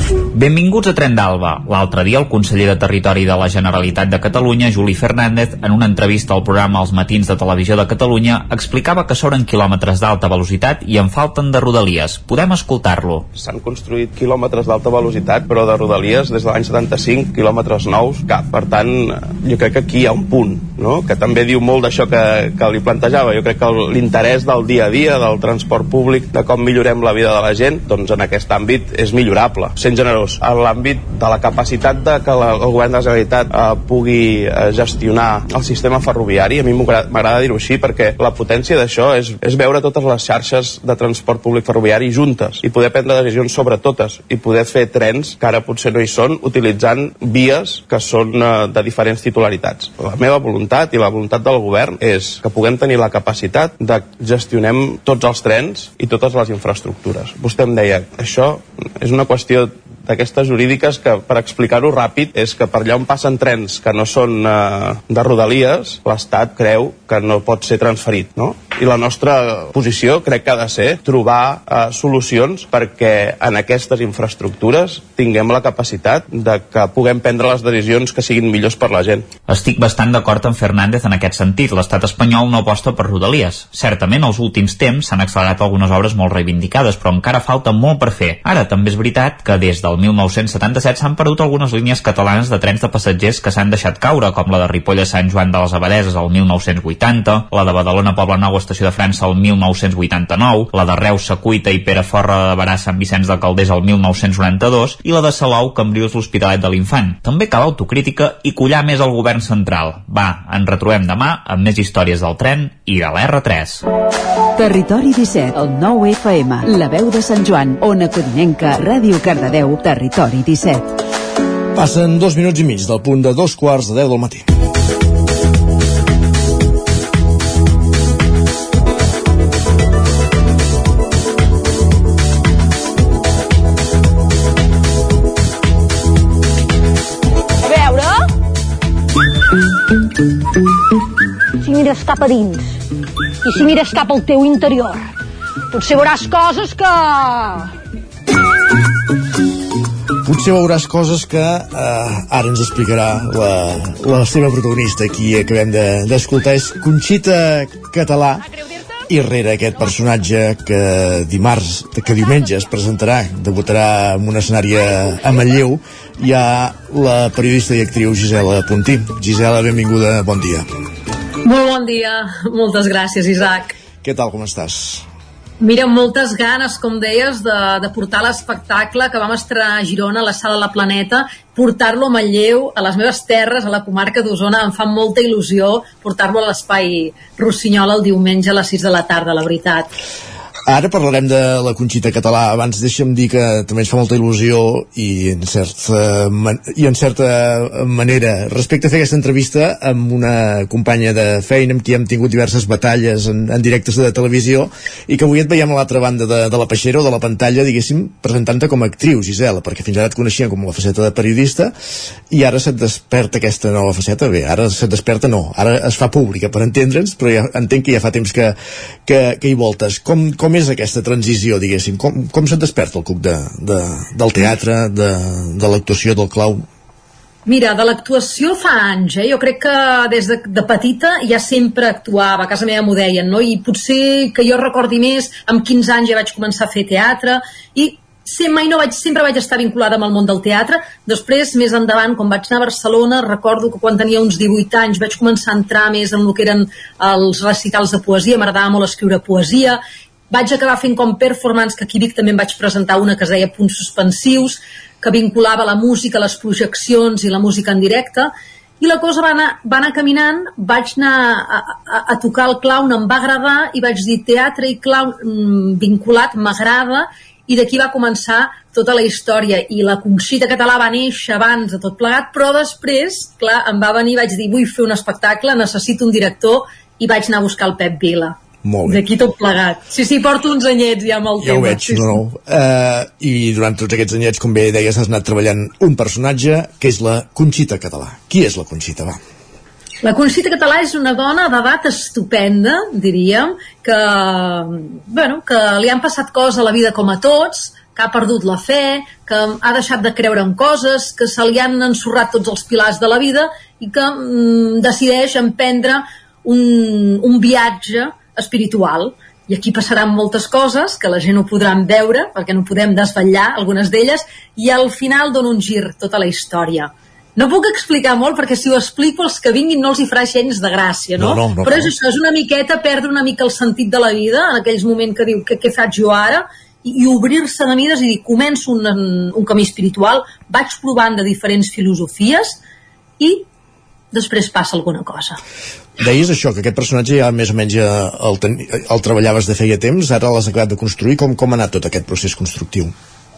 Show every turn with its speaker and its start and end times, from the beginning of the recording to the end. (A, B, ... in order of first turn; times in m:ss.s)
0:00.3-0:13.2 A
0:13.3-1:19.3 B
1:19.5-1:53.8 A
1:54.6-2:00.9 C
2:01.7-2:04.5 D
2:17.6-2:18.2 E
2:21.6-2:22.8 E
2:23.4-2:25.1 E
2:25.7-2:27.7 E
2:30.2-2:38.4 D
2:39.1-2:50.6 D
2:51.4-2:53.7 F
2:54.0-2:55.0 D
2:55.6-3:09.9 F
3:10.7-3:31.7 D
3:32.3-3:38.5 D
3:39.0-3:46.6 D
3:47.4-4:09.8 F
4:10.3-4:38.3 F
4:38.6-4:39.0 D
4:38.8-4:42.2 F
4:41.4-4:49.2 D
4:50.0-5:32.6 F
5:21.2-5:21.9 D
5:33.2-5:33.4 F
5:34.1-5:35.4 F
5:36.0-5:42.9 D